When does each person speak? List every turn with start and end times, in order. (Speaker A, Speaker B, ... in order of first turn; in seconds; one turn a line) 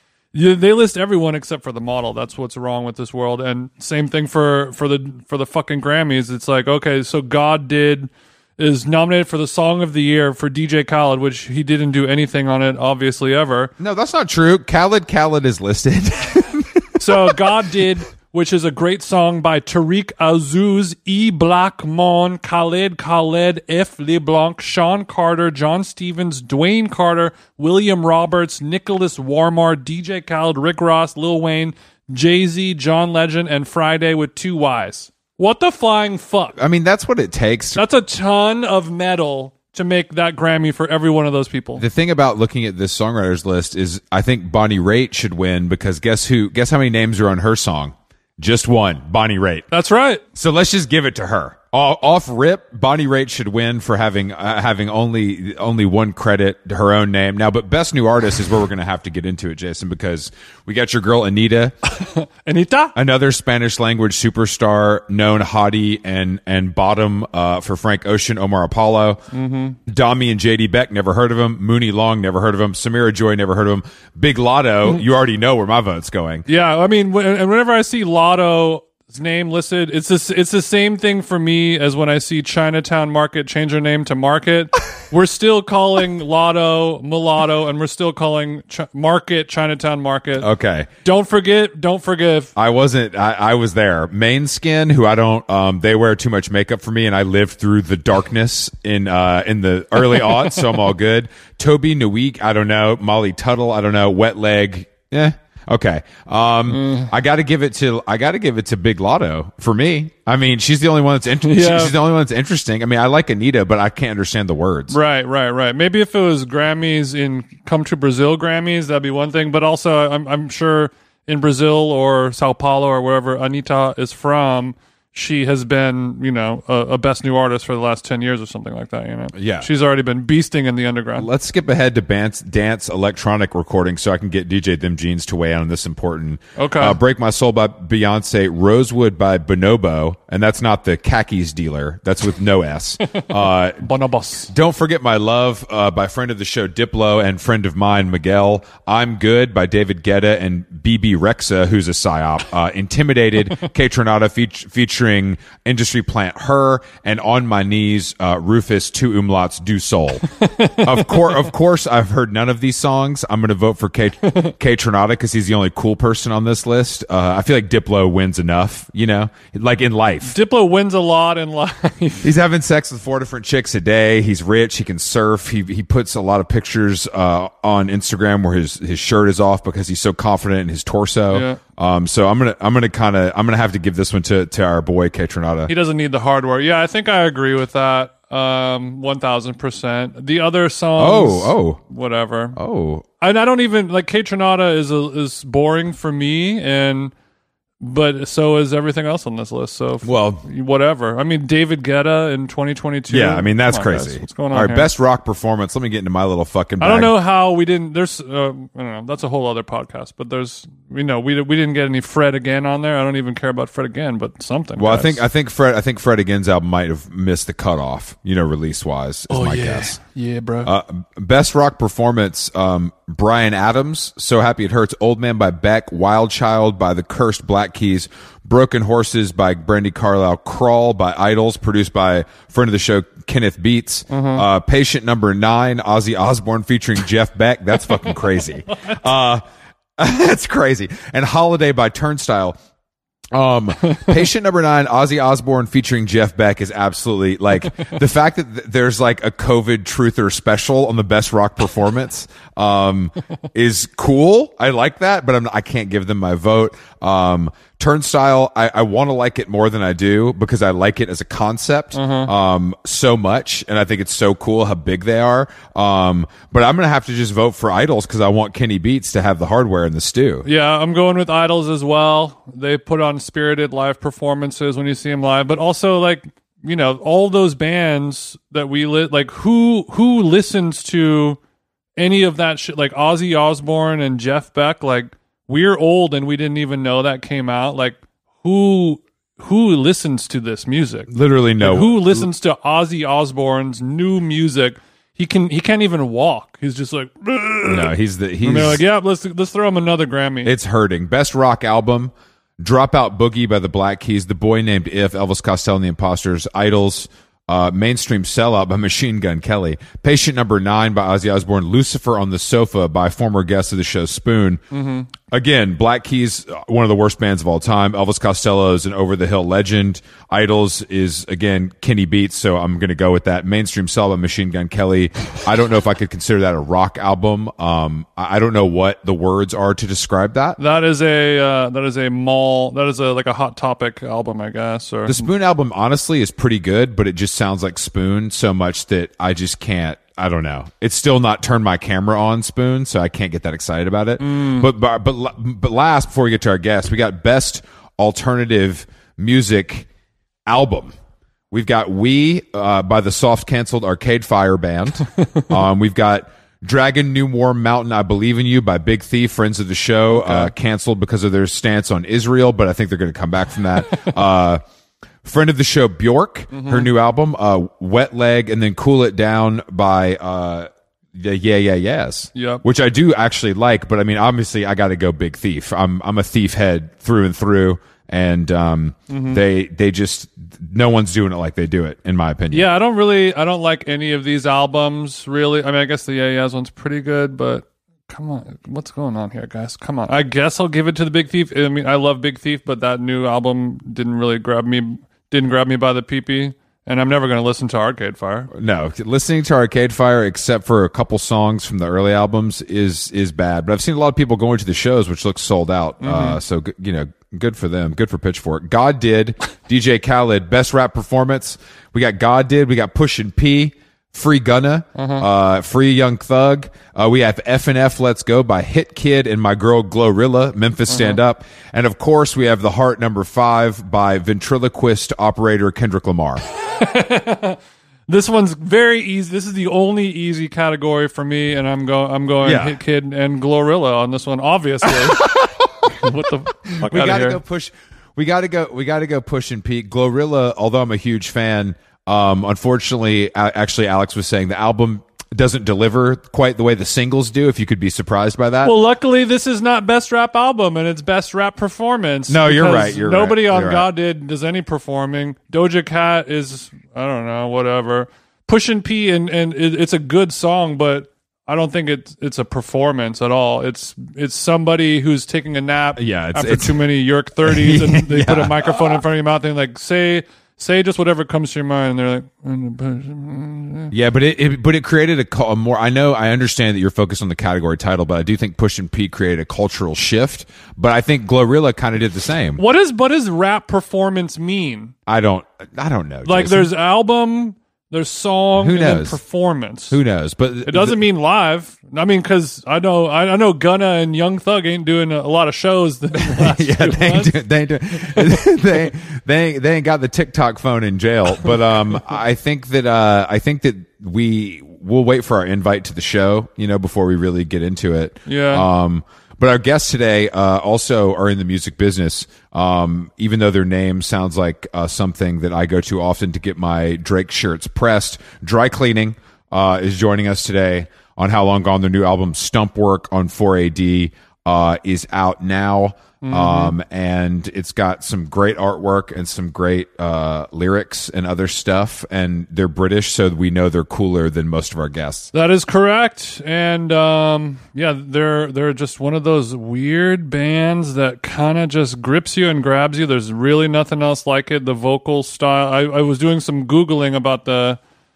Speaker A: 0.3-13.7
Speaker B: 13.8-17.4
Speaker A: 17.0-36.6
Speaker B: 36.6-37.8
Speaker A: 37.8-41.9
Speaker B: 41.8-49.7
Speaker A: 49.7-50.2
Speaker B: 50.4-61.8
Speaker A: 62.0-63.0
Speaker B: 63.0-69.2
Speaker A: 69.3-69.8
Speaker B: 69.9-76.5
Speaker A: 76.5-90.5
Speaker B: 90.4-90.9
Speaker A: 91.0-92.5
Speaker B: 92.6-115.0
Speaker A: 106.7-107.1
Speaker A: 111.4-111.9
Speaker A: 114.9-131.3
Speaker B: 129.3-129.7
Speaker B: 131.2-143.9
Speaker A: 136.6-137.0
Speaker A: 143.2-144.5
Speaker B: 144.5-160.2
Speaker A: 160.3-161.5
Speaker B: 160.8-170.4
Speaker A: 164.2-164.5
Speaker A: 170.2-172.3
Speaker B: 172.2-185.7
Speaker A: 181.3-181.6
Speaker A: 185.7-192.6
Speaker B: 191.0-191.8
Speaker B: 192.6-193.1
Speaker A: 193.2-197.1
Speaker A: 197.8-204.9
Speaker B: 200.0-200.5
Speaker B: 203.1-207.1
Speaker A: 206.8-215.2
Speaker B: 214.8-220.0
Speaker A: 219.3-220.7
Speaker B: 220.6-239.4
Speaker A: 234.1-234.5
Speaker B: 240.0-242.6
Speaker B: 243.3-270.5
Speaker A: 261.9-262.3
Speaker A: 270.4-281.4
Speaker A: 282.0-300.5
Speaker B: 291.1-292.3
Speaker B: 297.7-298.8
Speaker B: 300.4-314.6
Speaker A: 314.7-315.1
Speaker B: 315.2-330.6
Speaker A: 330.6-335.3
Speaker B: 335.1-349.9
Speaker A: 344.2-344.7
Speaker B: 350.5-350.9
Speaker B: 351.5-364.6
Speaker A: 360.1-360.5
Speaker B: 365.2-382.7
Speaker A: 366.5-366.9
Speaker A: 372.3-372.6
Speaker A: 379.1-379.4
Speaker A: 382.5-398.5
Speaker B: 398.5-426.4
Speaker A: 406.0-406.4
Speaker A: 414.9-415.3
Speaker A: 420.9-421.2
Speaker A: 426.8-435.3
Speaker B: 432.4-432.8
Speaker B: 435.1-435.5
Speaker A: 435.9-437.4
Speaker B: 436.8-448.7
Speaker A: 448.6-473.9
Speaker B: 452.3-453.9
Speaker B: 466.0-466.8
Speaker B: 467.4-469.0
Speaker B: 473.9-482.6
Speaker A: 482.6-484.9
Speaker B: 485.1-486.7
Speaker A: 486.2-490.0
Speaker B: 488.6-489.2
Speaker B: 489.9-491.0
Speaker A: 490.6-497.4
Speaker B: 496.2-535.3
Speaker A: 497.9-498.4
Speaker A: 508.3-508.7
Speaker A: 526.2-526.7
Speaker A: 535.3-547.8